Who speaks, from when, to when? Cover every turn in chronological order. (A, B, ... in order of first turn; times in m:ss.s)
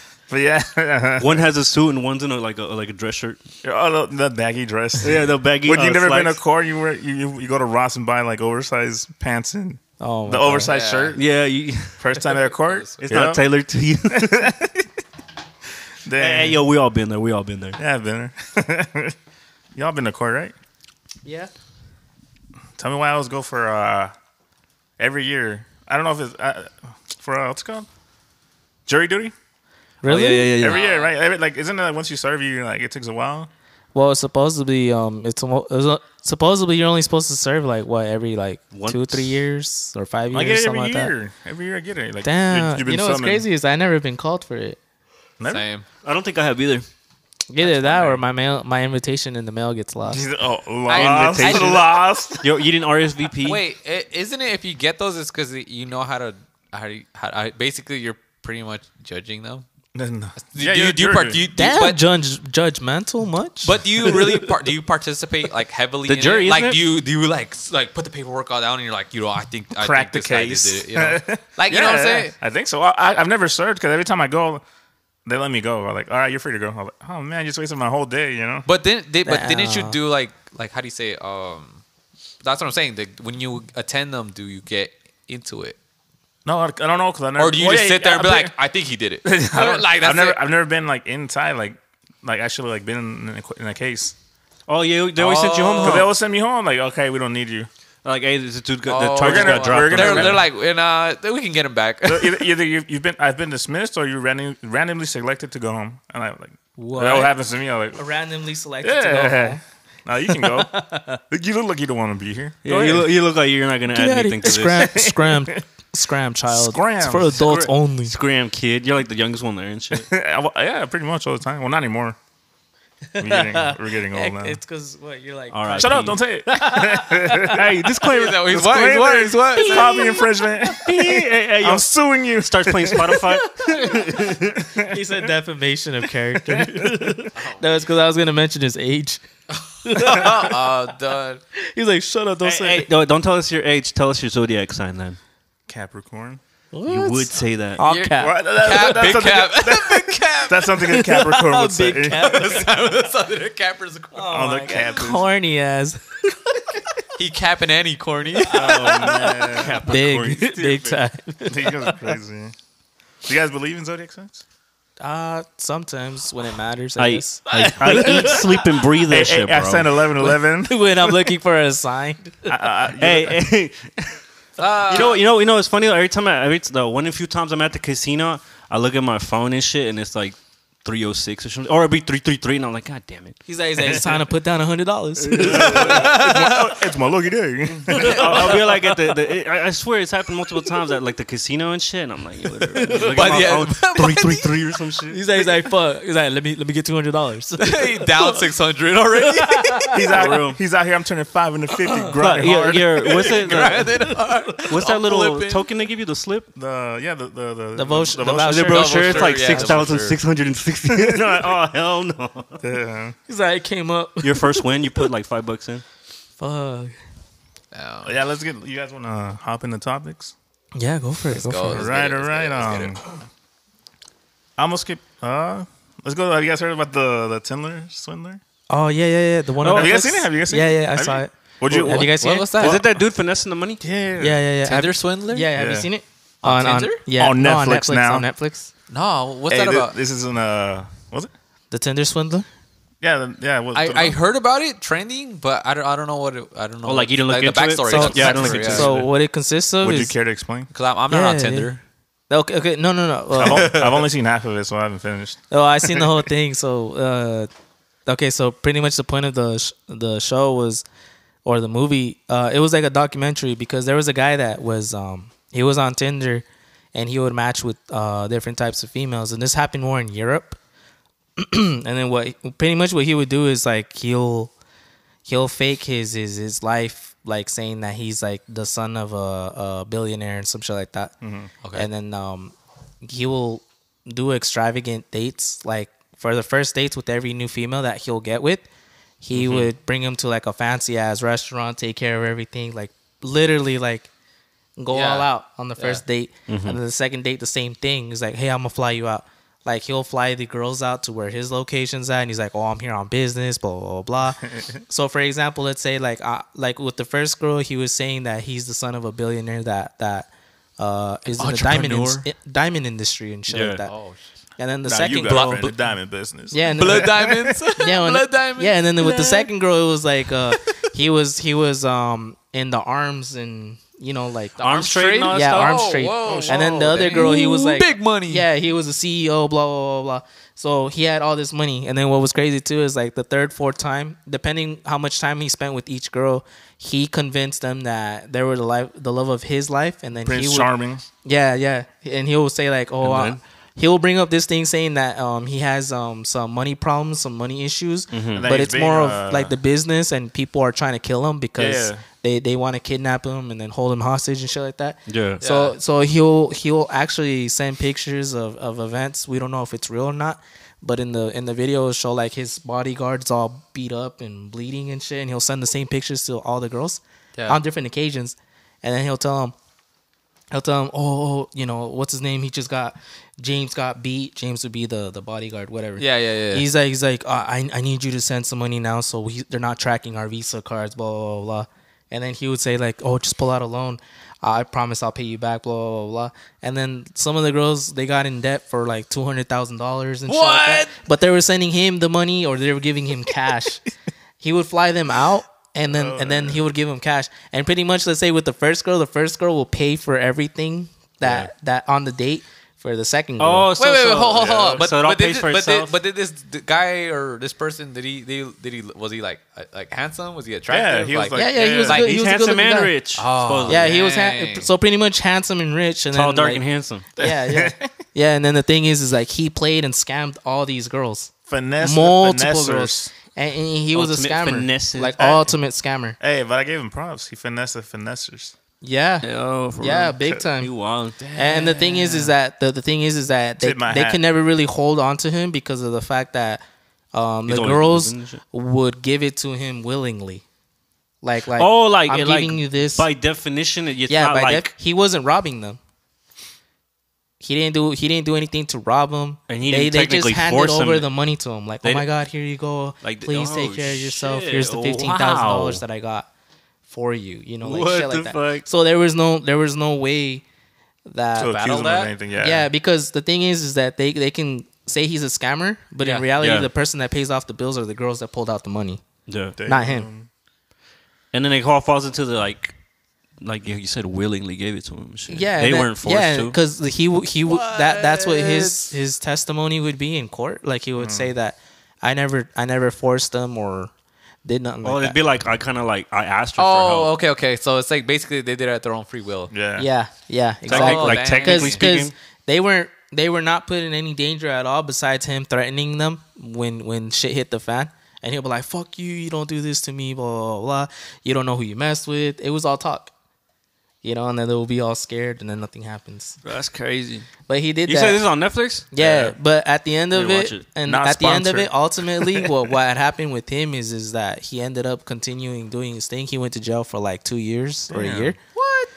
0:00.3-0:01.5 A
0:01.2-0:03.4 B
0:03.6-0:11.2 A
0:05.0-0:06.4 B
0:10.0-0:10.7 C
0:10.7-0:11.2 D
0:11.1-0:12.0 B
0:12.0-0:13.4 A
0:12.5-0:13.3 D
0:13.0-0:14.6 B
0:14.1-0:14.7 A
0:16.1-0:16.6 A
0:16.2-0:17.8 B
0:17.8-0:19.2 A
0:19.8-0:20.6 A
0:21.2-0:21.5 C
0:22.8-0:24.1 A
0:25.0-0:27.9 A
0:28.9-0:29.3 A
0:30.0-0:30.6 C
0:30.0-0:30.8 B
0:30.6-0:33.5 A
0:30.7-0:31.1 D
0:34.0-0:41.1 C
0:38.7-0:39.4 B
0:40.3-0:43.4 A
0:42.2-0:44.8 C
0:45.4-0:45.6 A
0:45.5-0:45.9 D
0:46.0-0:46.8 B
0:47.5-0:50.2 C
0:47.8-0:48.2 A
0:50.1-0:52.5 A
0:50.9-0:51.8 D
0:50.9-0:51.8 B
0:51.5-0:51.8 C
0:52.4-0:53.6 B
0:53.4-0:59.6 D
1:00.0-1:01.5 A
1:00.4-1:02.0 D
1:01.6-1:03.8 C
1:03.6-1:12.3 D
1:06.1-1:06.8 B
1:09.7-1:14.6 A
1:15.3-1:18.7 A
1:18.7-1:21.8 D
1:19.2-1:20.0 C
1:22.4-1:25.8 D
1:26.4-1:28.6 A
1:27.4-1:30.4 D
1:29.2-1:34.2 A
1:34.7-1:36.1 B
1:35.2-1:36.1 D
1:35.8-1:37.7 A
1:38.0-1:40.4 B
1:38.9-1:42.4 D
1:39.2-1:40.4 A
1:42.1-1:48.0 A
1:46.8-1:47.3 C
1:48.0-1:49.6 C
1:48.8-1:50.7 A
1:50.3-1:51.2 C
1:51.3-1:53.1 A
1:52.6-1:55.0 B
1:53.9-1:58.1 C
1:54.7-1:55.6 A
1:56.5-1:57.3 A
1:57.4-2:00.1 B
2:00.0-2:02.2 A
2:03.1-2:05.9 C
2:03.2-2:04.6 A
2:05.5-2:06.2 B
2:05.7-2:07.7 A
2:06.5-2:07.6 C
2:07.5-2:09.0 B
2:08.0-2:10.1 D
2:08.5-2:14.0 A
2:09.5-2:14.7 B
2:13.6-2:14.2 C
2:14.6-2:15.0 A
2:14.8-2:19.2 C
2:16.5-2:17.3 A
2:17.4-2:17.9 D
2:19.6-2:21.4 D
2:19.8-2:20.7 C
2:21.6-2:22.9 C
2:22.4-2:25.2 B
2:25.7-2:26.4 A
2:26.7-2:28.4 C
2:26.9-2:27.8 B
2:27.8-2:30.8 D
2:28.2-2:32.4 A
2:30.9-2:32.7 C
2:32.1-2:34.4 D
2:34.2-2:36.2 C
2:34.3-2:35.3 A
2:37.2-2:39.2 D
2:38.5-2:39.8 A
2:38.7-2:41.0 B
2:39.8-2:42.0 C
2:41.5-2:42.5 A
2:43.2-2:44.4 A
2:45.0-2:48.4 C
2:47.0-2:49.9 B
2:47.5-2:48.5 A
2:49.1-2:51.1 A
2:50.2-2:52.6 C
2:52.5-2:53.4 A
2:53.0-2:54.2 B
2:54.6-2:55.2 D
2:54.8-3:03.4 B
3:03.5-3:06.4 C
3:03.8-3:04.1 A
3:05.2-3:06.2 B
3:05.4-3:08.6 A
3:05.6-3:06.6 D
3:07.9-3:15.2 B
3:07.9-3:08.4 C
3:12.7-3:13.4 C
3:12.9-3:14.5 D
3:15.1-3:18.5 C
3:17.6-3:20.2 D
3:19.2-3:20.2 C
3:19.9-3:20.6 B
3:20.0-3:22.8 A
3:21.9-3:22.8 C
3:22.2-3:26.5 B
3:22.7-3:25.7 D
3:26.6-3:28.8 A
3:27.8-3:29.8 C
3:28.3-3:32.6 B
3:28.7-3:30.2 D
3:30.9-3:31.5 A
3:32.6-3:33.2 A
3:33.3-3:35.1 C
3:34.2-3:35.8 B
3:36.4-3:36.9 C
3:37.7-3:38.2 D
3:38.0-3:40.3 A
3:40.8-3:41.9 C
3:41.3-3:43.0 D
3:41.7-3:43.1 A
3:44.6-3:48.4 A
3:48.7-3:51.3 C
3:49.6-3:52.8 A
3:51.7-3:53.8 B
3:51.8-3:52.6 C
3:52.1-3:52.8 D
3:53.8-3:54.4 A
3:54.2-3:58.7 C
3:54.7-3:55.5 D
3:55.6-3:55.9 A
3:56.4-3:57.0 D
3:57.2-3:58.3 A
3:58.9-4:00.0 D
3:59.5-4:01.3 A
4:01.7-4:02.5 C
4:03.0-4:04.2 A
4:03.8-4:08.9 D
4:06.8-4:08.9 B
4:07.9-4:10.2 C
4:08.0-4:09.1 A
4:09.8-4:10.7 A
4:10.7-4:11.8 D
4:11.1-4:11.7 C
4:12.3-4:13.8 C
4:13.4-4:16.1 A
4:13.4-4:14.0 D
4:15.5-4:17.5 C
4:18.1-4:20.8 C
4:21.4-4:30.6 C
4:31.4-4:34.5 C
4:35.3-4:41.1 C
4:41.2-4:41.5 A
4:41.7-4:48.7 C
4:49.2-4:54.1 C
4:54.8-5:13.9 C
4:54.9-4:55.3 D
4:56.5-4:56.8 B
5:04.4-5:04.8 A
5:11.3-5:12.2 D
5:13.5-5:13.8 B
5:13.9-5:14.2 D
5:14.6-5:15.5 C
5:14.9-5:17.4 A
5:15.3-5:15.8 D
5:16.5-5:24.7 C
5:16.7-5:18.8 D
5:19.0-5:19.3 B
5:24.6-5:28.5 D
5:24.6-5:26.4 B
5:25.3-5:40.7 C
5:26.2-5:27.1 A
5:40.2-5:41.0 A
5:41.2-6:09.6 C
5:43.0-5:43.4 B
5:48.1-5:48.5 B
5:48.3-5:49.5 A
5:51.6-5:52.0 A
5:55.1-5:55.4 B
5:55.4-5:55.8 D
6:10.5-6:33.8 C
6:16.0-6:16.7 D
6:30.3-6:31.0 D
6:34.4-6:43.7 C
6:35.9-6:36.6 A
6:41.2-6:41.5 B
6:43.4-6:46.0 B
6:43.8-6:52.1 D
6:44.4-6:44.8 A
6:50.7-6:52.0 A
6:51.3-6:52.9 C
6:51.9-6:53.9 B
6:53.2-6:54.7 D
6:53.7-6:56.6 C
6:56.1-6:57.1 B
6:57.2-7:06.2 C
6:57.2-6:57.9 A
7:01.5-7:03.1 A
7:03.9-7:05.2 B
7:05.2-7:05.5 A
7:06.2-7:08.5 A
7:08.8-7:09.3 C
7:09.2-7:11.2 B
7:09.8-7:10.7 C
7:11.2-7:12.3 D
7:11.4-7:16.6 C
7:13.6-7:14.2 A
7:17.1-7:20.4 C
7:17.5-7:18.4 B
7:21.2-7:23.1 C
7:21.6-7:24.7 B
7:24.1-7:25.8 C
7:27.4-7:36.3 C
7:29.5-7:31.1 B
7:33.0-7:35.8 B
7:36.9-7:40.4 C
7:37.6-7:38.7 B
7:41.1-7:41.6 C
7:41.4-7:42.7 A
7:41.4-7:42.1 D
7:42.4-7:49.0 C
7:46.0-7:46.3 D
7:46.4-7:46.7 B
7:49.3-7:49.6 B
7:49.6-7:50.3 A
7:49.7-7:50.1 C
7:51.3-7:52.8 B
7:53.4-7:56.6 B
7:55.3-8:03.9 C
7:57.5-7:58.9 D
8:01.0-8:01.3 A
8:04.4-8:05.2 C
8:04.8-8:07.2 B
8:06.6-8:09.5 D
8:09.5-8:09.9 A
8:09.8-8:23.1 C
8:10.7-8:12.1 B
8:10.7-8:11.8 D
8:24.0-8:26.4 C
8:26.4-8:27.3 B
8:27.5-8:28.2 C
8:27.9-8:28.9 B
8:28.9-8:38.4 C
8:29.0-8:29.3 A
8:30.1-8:30.7 B
8:30.8-8:32.5 A
8:37.9-8:38.4 A
8:38.6-8:38.9 D